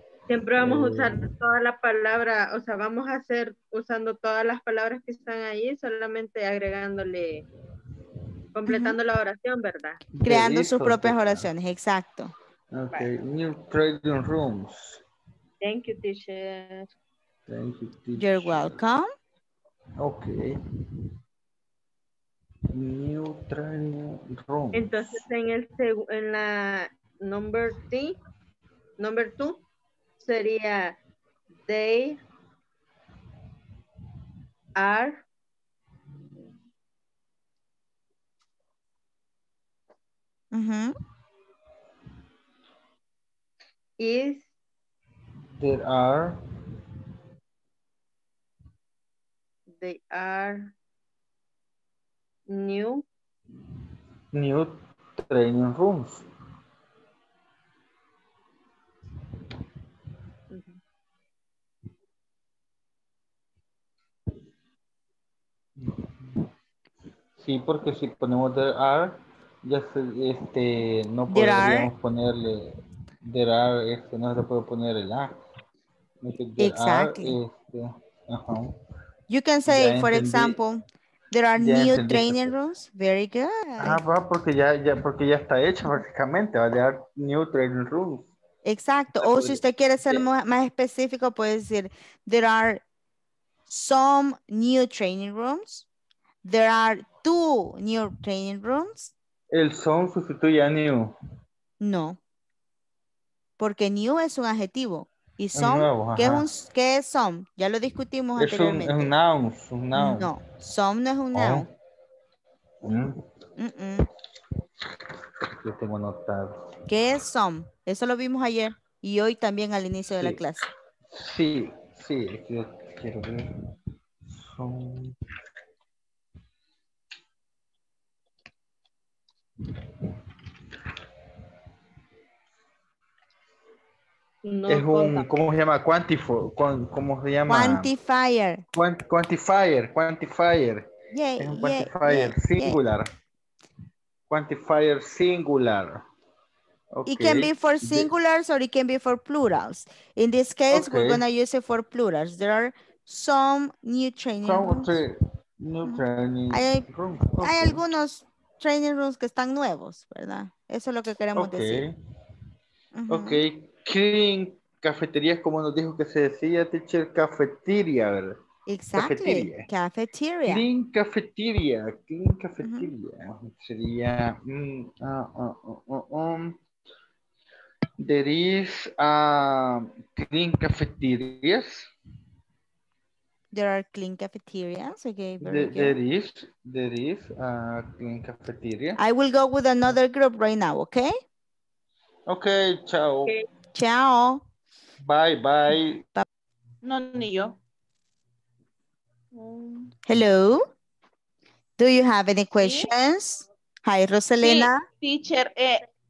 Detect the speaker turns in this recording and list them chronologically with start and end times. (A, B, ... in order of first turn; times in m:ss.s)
0:00.3-0:07.4 A
0:00.6-0:01.3 B
0:08.5-0:10.0 A
0:08.7-0:09.0 C
0:10.1-0:11.5 B
0:10.2-0:12.3 C
0:12.7-0:15.0 B
0:15.6-0:16.9 A
0:17.5-0:18.8 B
0:18.2-0:19.1 C
0:20.0-0:20.5 B
0:22.7-0:25.2 B
0:24.7-0:28.2 A
0:29.0-0:29.6 A
0:30.2-0:31.0 A
0:31.6-0:32.2 A
0:34.8-0:35.2 A
0:40.5-0:40.9 C
0:44.0-0:44.5 A
0:45.6-0:46.4 B
0:49.7-0:50.7 A
0:52.5-0:53.0 A
0:54.3-0:56.2 B
1:00.5-1:00.8 A
1:05.8-1:06.5 B
1:07.4-1:15.3 B
1:11.3-1:11.9 C
1:16.2-1:18.7 B
1:16.6-1:17.4 C
1:19.3-1:24.0 C
1:19.7-1:20.6 B
1:21.6-1:22.5 B
1:23.8-1:28.3 B
1:28.6-1:32.8 C
1:29.2-1:30.3 B
1:33.7-1:35.8 C
1:36.4-1:39.1 C
1:39.5-1:41.1 B
1:41.8-1:42.2 C
1:43.6-1:49.1 C
1:45.5-1:46.5 B
1:48.4-1:50.3 B
1:49.9-1:51.7 C
1:51.3-1:51.7 B
1:52.8-1:53.2 B
1:53.6-1:54.1 C
1:55.4-1:56.5 B
1:56.9-2:00.6 C
2:01.1-2:03.5 B
2:04.2-2:05.2 B
2:14.4-2:15.3 A
2:14.7-2:17.9 B
2:17.5-2:18.6 C
2:18.7-2:23.1 B
2:21.1-2:22.8 C
2:24.3-2:26.0 B
2:26.9-2:28.1 B
2:27.0-2:35.0 C
2:30.7-2:31.2 B
2:34.4-2:37.8 B
2:35.8-2:36.9 C
2:37.4-2:41.8 C
2:41.4-2:42.0 B
2:42.9-2:43.4 C
2:43.1-2:48.4 B
2:48.7-2:50.6 C
2:49.0-2:49.7 B
2:50.5-2:56.6 B
2:52.6-2:52.9 C
2:58.0-3:01.9 B
3:03.5-3:06.0 C
3:05.4-3:09.0 B
3:09.0-3:11.2 C
3:12.3-3:13.4 B
3:13.7-3:14.4 C
3:15.0-3:16.0 B
3:16.8-3:17.6 D
3:19.3-3:19.9 D
3:20.0-3:20.6 C
3:21.8-3:24.8 C
3:22.6-3:22.9 D
3:24.4-3:25.8 D